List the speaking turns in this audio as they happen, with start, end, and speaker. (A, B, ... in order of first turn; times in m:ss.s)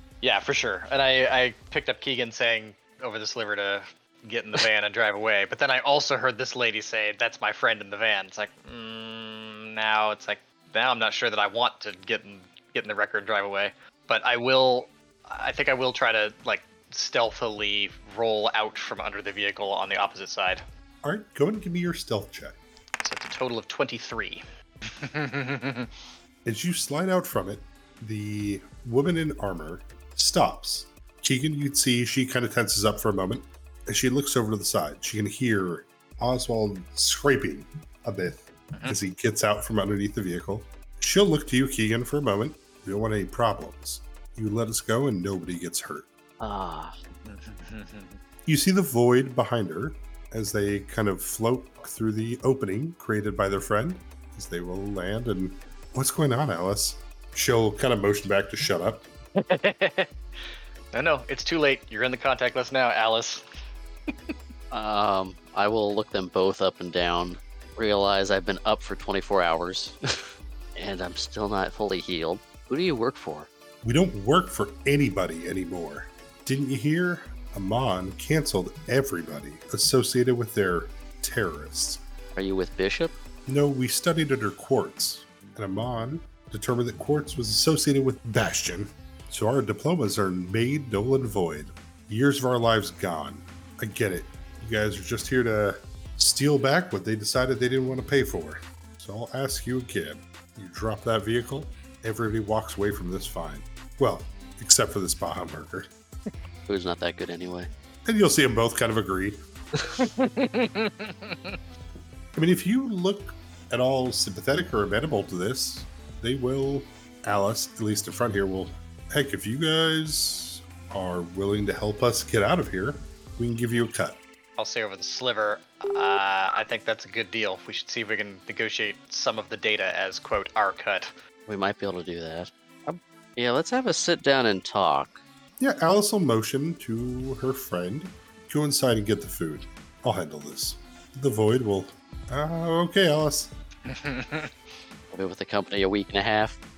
0:00.2-0:20.6 A
0:21.0-0:22.6 B
0:23.0-0:25.9 A
0:26.4-0:46.1 B
0:38.7-0:39.0 A
0:46.4-0:47.0 C
0:47.2-0:48.2 A
0:48.5-0:59.1 B
0:59.4-1:00.1 A
1:00.9-1:03.4 A
1:04.1-1:04.3 A
1:04.7-1:10.0 C
1:10.8-1:13.5 C
1:13.8-1:22.0 B
1:22.4-1:23.2 C
1:23.5-1:45.9 B
1:46.7-1:47.7 C
1:48.0-1:49.4 B
1:50.0-1:51.6 A
1:52.4-2:04.2 B
2:04.6-2:11.1 A
2:11.5-2:15.2 C
2:15.6-2:23.5 B
2:23.9-2:24.5 A
2:25.1-2:26.6 C